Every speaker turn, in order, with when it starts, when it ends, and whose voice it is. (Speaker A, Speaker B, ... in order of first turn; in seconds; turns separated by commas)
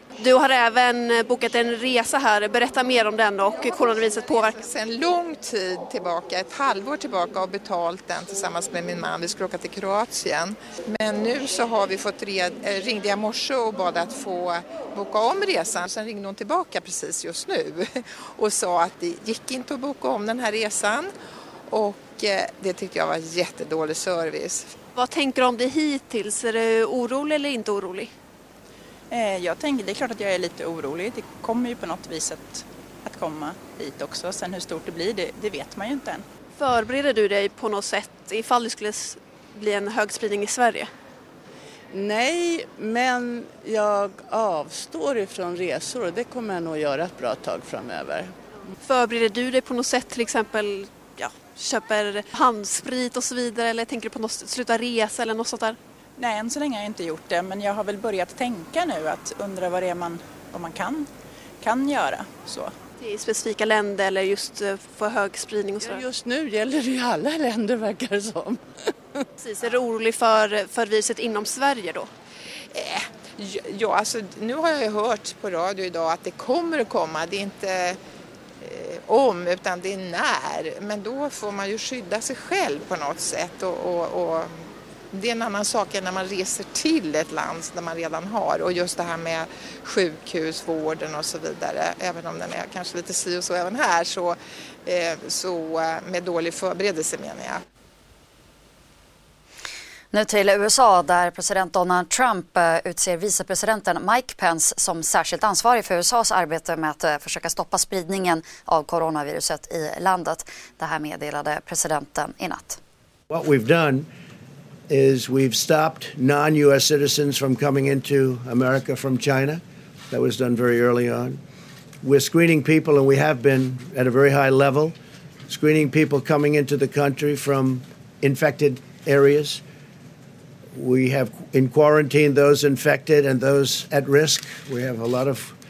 Speaker A: 0.2-4.5, Speaker B: 4.5-21.1, Speaker B: 21.7-24.7, Speaker A: 24.9-28.1, Speaker C: 29.1-36.2, Speaker A: 36.6-40.9, Speaker D: 41.9-48.3, Speaker A: 48.9-55.8, Speaker C: 56.2-61.0, Speaker C: 61.6-62.6, Speaker A: 63.0-66.0, Speaker D: 65.8-68.6, Speaker A: 69.4-72.1, Speaker B: 72.7-78.0, Speaker B: 78.6-97.6, Speaker E: 100.1-112.8, Speaker F: 113.3-114.1, Speaker F: 114.9-119.6, Speaker F: 120.1-121.3, Speaker F: 122.0-124.9, Speaker F: 125.5-129.6, Speaker F: 130.7-135.5